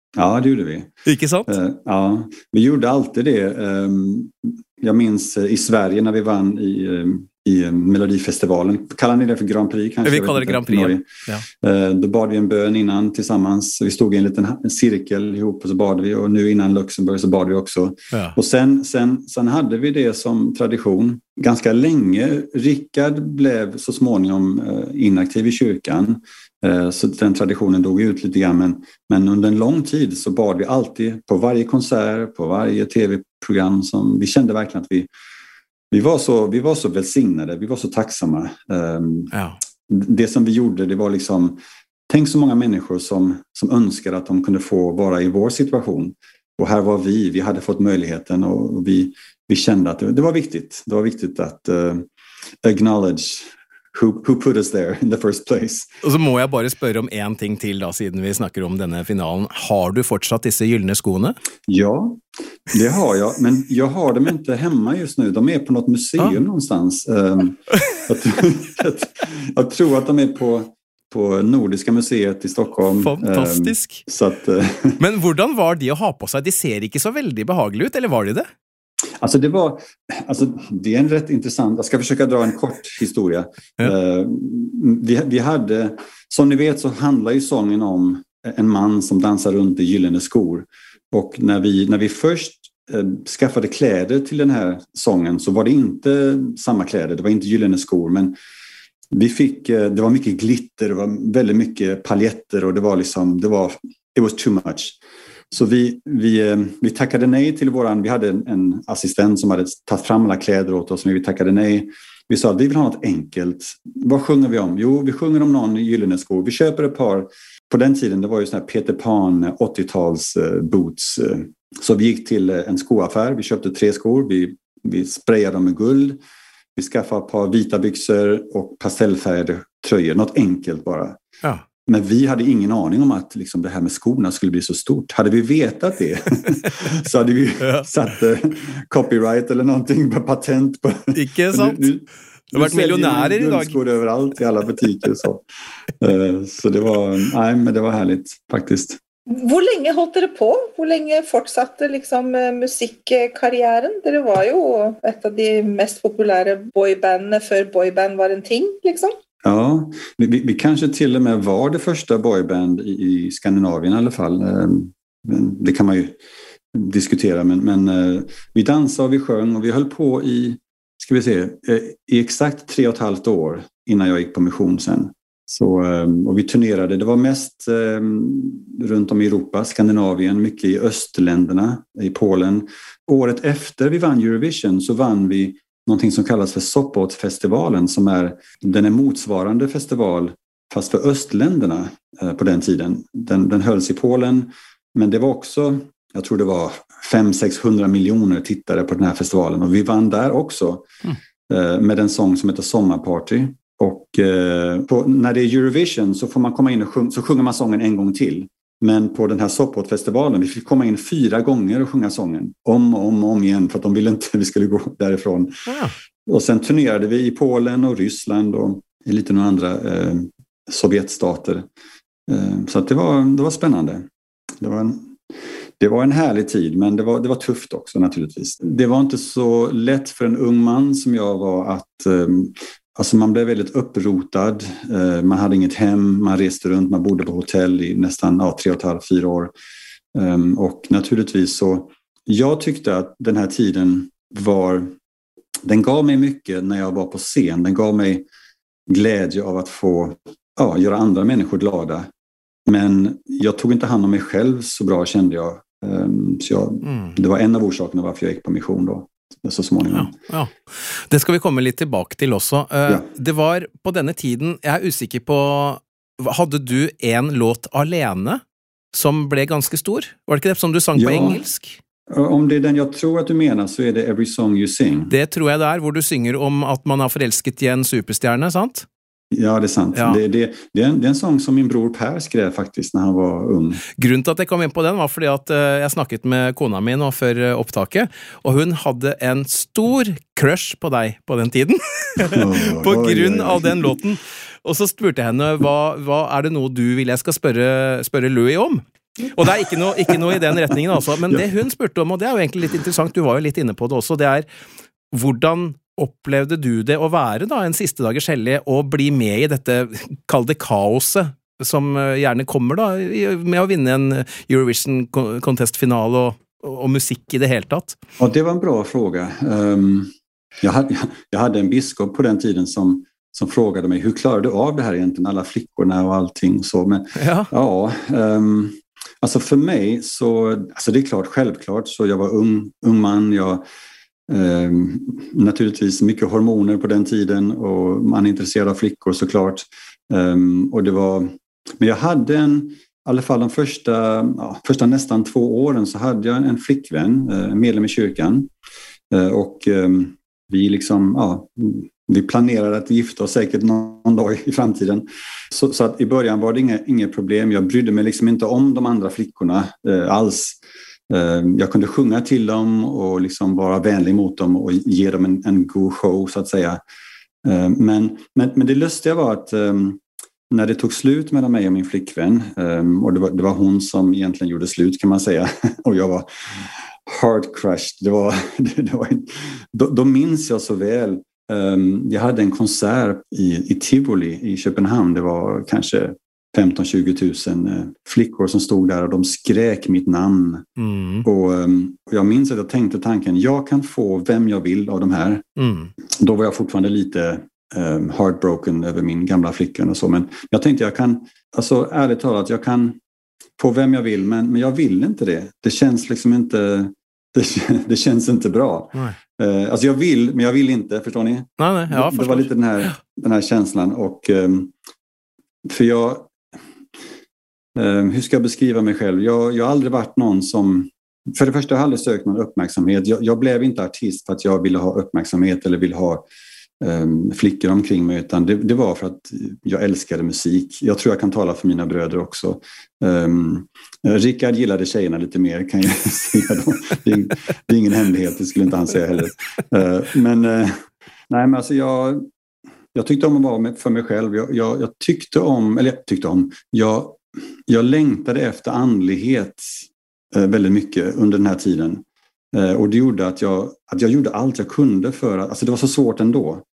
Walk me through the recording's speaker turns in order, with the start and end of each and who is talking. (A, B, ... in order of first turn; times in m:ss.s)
0:00.2-0:00.9 A
0:01.1-0:01.6 B
0:01.5-0:35.1 A
0:10.0-0:11.4 B
0:35.9-0:39.3 A
0:39.3-0:39.6 B
0:39.9-0:41.6 A
0:42.1-0:52.1 A
0:52.6-0:55.9 A
0:56.0-1:01.4 B
1:01.7-1:15.0 A
1:12.9-1:14.0 B
1:15.0-1:18.5 B
1:19.2-1:38.4 A
1:39.1-1:45.0 A
1:45.5-2:06.2 A
2:06.8-2:11.2 A
2:11.9-2:25.4 A
2:17.6-2:17.9 B
2:21.1-2:21.9 B
2:22.5-2:23.8 B
2:26.0-2:29.0 A
2:29.3-2:39.1 C
2:39.4-2:46.2 A
2:46.7-3:20.9 A
3:21.5-3:35.7 A
3:35.7-3:36.0 B
3:36.3-3:41.7 A
3:42.3-3:44.1 A
3:44.6-3:45.2 A
3:45.8-3:59.5 A
4:00.1-4:04.9 A
4:05.7-4:08.3 A
4:08.9-4:12.1 A
4:12.7-4:20.1 A
4:16.8-4:17.2 B
4:19.9-4:28.4 B
4:28.9-4:31.8 B
4:31.0-4:31.4 A
4:32.1-4:35.1 A
4:35.1-4:38.9 B
4:39.3-4:43.8 A
4:40.0-4:40.2 B
4:44.0-5:04.5 B
4:52.2-4:54.0 A
5:00.1-5:00.7 A
5:05.1-5:18.0 B
5:18.2-5:33.6 A
5:27.2-5:27.5 B
5:34.3-5:48.5 A
5:49.1-6:00.6 A
6:01.1-6:06.8 A
6:07.4-6:30.7 A
6:30.8-6:31.2 B
6:31.2-6:35.4 A
6:35.6-6:35.9 B
6:36.1-6:43.0 A
6:43.6-6:54.7 A
6:51.6-6:52.9 B
6:55.6-6:56.3 A
6:57.8-7:06.2 A
7:06.8-7:20.8 A
7:21.3-7:22.3 A
7:22.9-7:36.6 A